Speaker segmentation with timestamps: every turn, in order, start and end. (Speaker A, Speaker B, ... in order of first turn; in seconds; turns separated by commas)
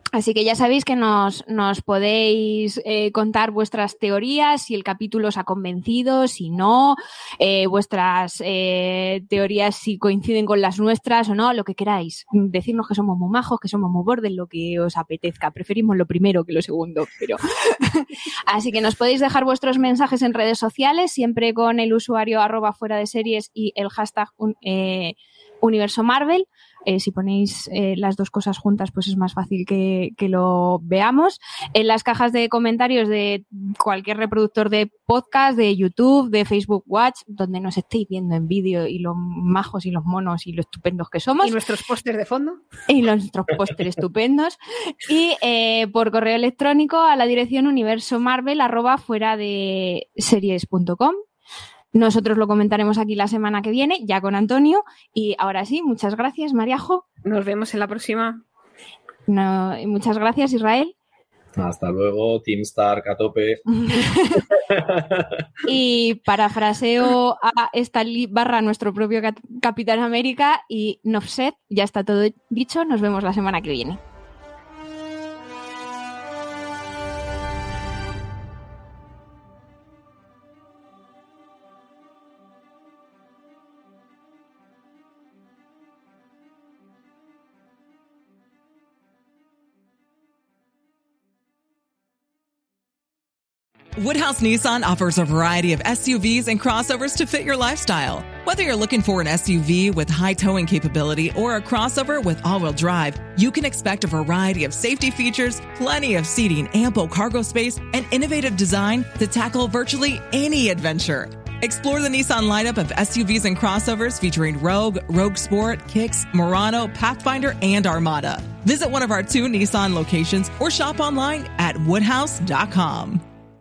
Speaker A: 0.1-41.5, Speaker B: 41.4-42.6, Speaker A: 42.9-51.2, Speaker A: 51.9-57.0, Speaker B: 57.2-58.4, Speaker A: 59.3-60.9, Speaker C: 61.5-63.6, Speaker A: 63.8-64.5, Speaker C: 64.7-65.4, Speaker A: 65.6-74.0, Speaker D: 94.0-123.2